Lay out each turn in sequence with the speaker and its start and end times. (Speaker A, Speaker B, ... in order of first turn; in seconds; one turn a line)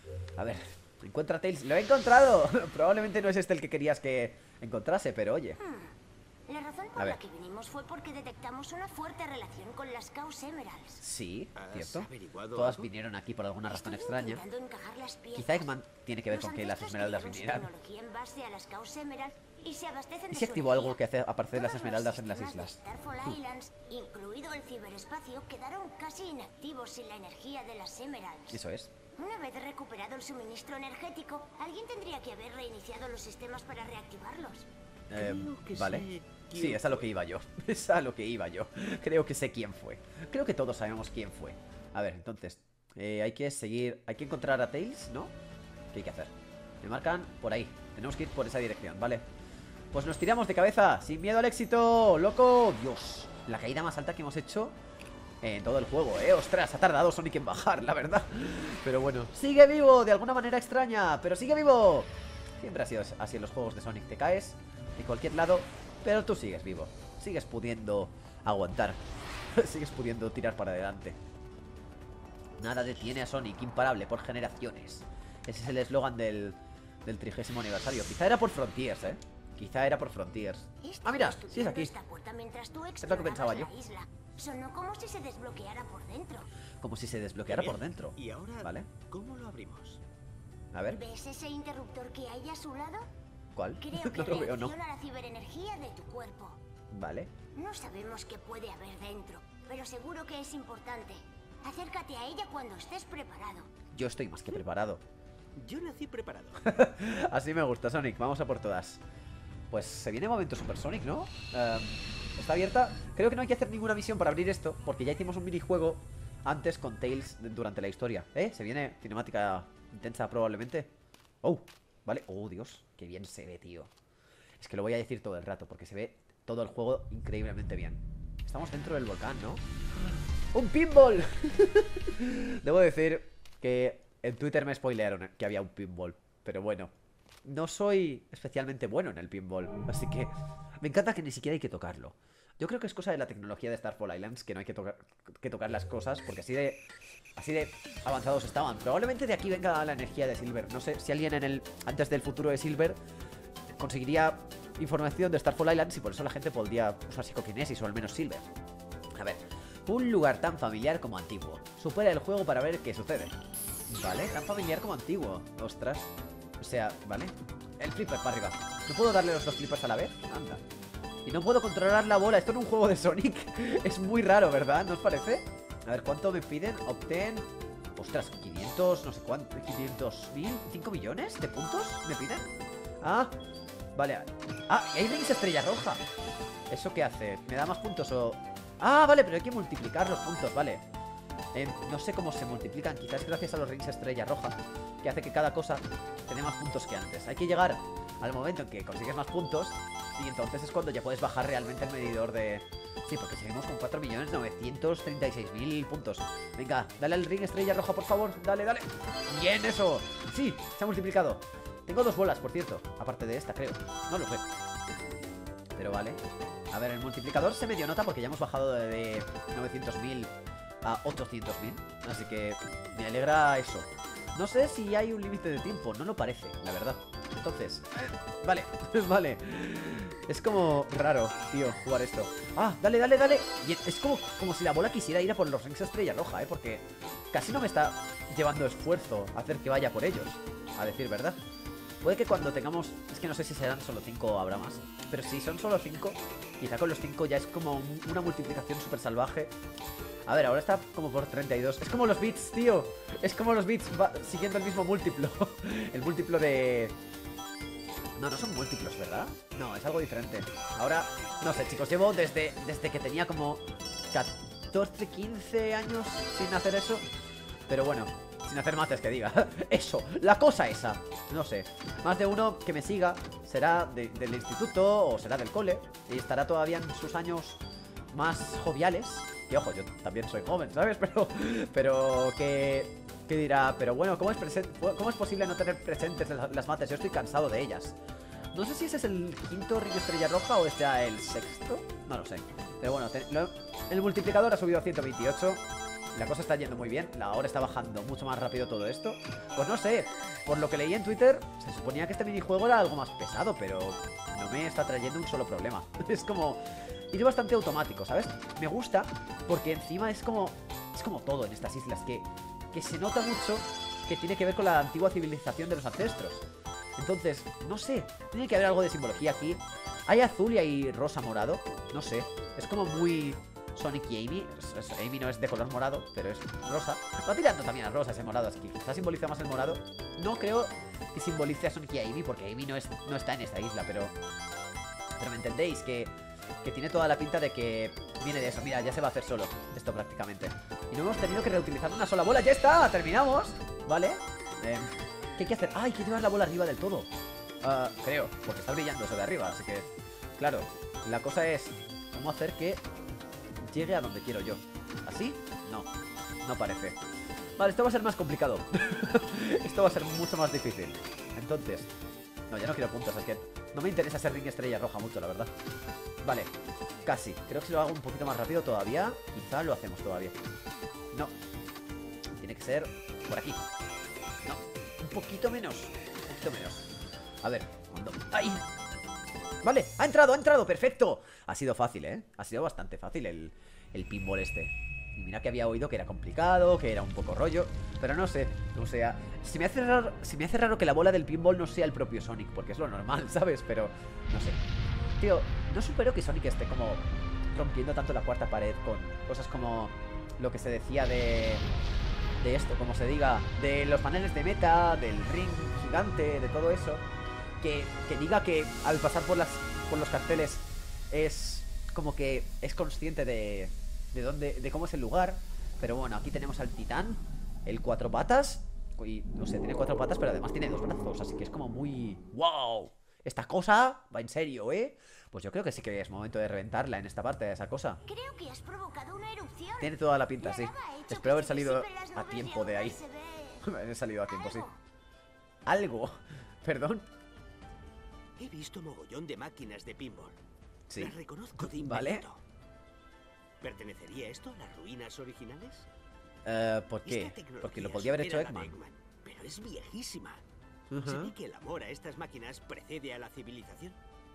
Speaker A: 0.4-5.6
Speaker B: 5.6-6.0
Speaker B: 6.5-11.0
Speaker A: 11.0-14.4
Speaker C: 11.6-12.9
Speaker B: 13.7-15.7
Speaker A: 15.3-17.7
Speaker B: 16.3-21.0
Speaker A: 20.3-22.8
Speaker B: 21.5-28.6
Speaker A: 28.5-28.9
Speaker B: 29.2-34.7
Speaker A: 35.1-45.3
Speaker C: 35.1-37.1
Speaker A: 45.9-49.2
Speaker A: 49.9-54.8
Speaker A: 55.4-69.0
Speaker A: 69.5-71.2
Speaker A: 72.6-81.9
Speaker B: 80.8-86.5
Speaker A: 83.0-83.7
Speaker A: 86.8-88.9
Speaker C: 87.5-90.0
Speaker A: 90.7-91.0
Speaker B: 90.9-93.1
Speaker A: 93.5-94.8
Speaker B: 93.8-96.6
Speaker A: 96.9-97.3
Speaker B: 97.5-103.7
Speaker A: 103.9-105.0
Speaker C: 105.6-106.7
Speaker A: 106.6-109.0
Speaker A: 109.7-120.9
Speaker A: 121.4-123.9
Speaker A: 124.6-129.6
Speaker A: 130.5-136.9
Speaker A: 137.4-146.8
Speaker A: 147.4-153.0
Speaker A: 153.8-158.5
Speaker A: 159.2-163.4
Speaker A: 163.9-170.6
Speaker A: 171.3-182.5
Speaker A: 183.0-183.4
Speaker A: 183.9-186.0
Speaker A: 186.7-190.8
Speaker A: 191.5-214.4
Speaker A: 215.8-216.2
Speaker A: 216.7-241.4
Speaker A: 242.0-249.6
Speaker A: 250.3-257.0
Speaker A: 258.2-267.1
Speaker A: 267.7-277.6
Speaker A: 278.1-288.0
Speaker A: 288.5-316.4
Speaker A: 317.0-334.1
Speaker A: 335.2-347.1
Speaker A: 347.6-352.8
Speaker A: 353.7-355.9
Speaker A: 356.4-357.0
Speaker A: 357.6-361.9
Speaker A: 362.5-365.5
Speaker A: 366.2-366.5
Speaker A: 367.1-370.4
Speaker A: 372.4-373.6
Speaker A: 374.4-376.9
Speaker A: 377.4-378.6
Speaker A: 379.6-394.6
Speaker A: 395.2-401.6
Speaker A: 402.4-407.1
Speaker A: 407.6-428.0
Speaker B: 428.1-433.7
Speaker A: 429.8-433.0
Speaker A: 433.6-434.7
Speaker B: 434.3-434.8
Speaker A: 435.7-437.1
Speaker C: 438.4-440.4
Speaker A: 440.9-442.2
Speaker C: 441.0-442.4
Speaker C: 443.6-445.9
Speaker A: 446.4-448.8
Speaker C: 447.1-450.4
Speaker A: 450.9-451.3
Speaker C: 451.0-454.0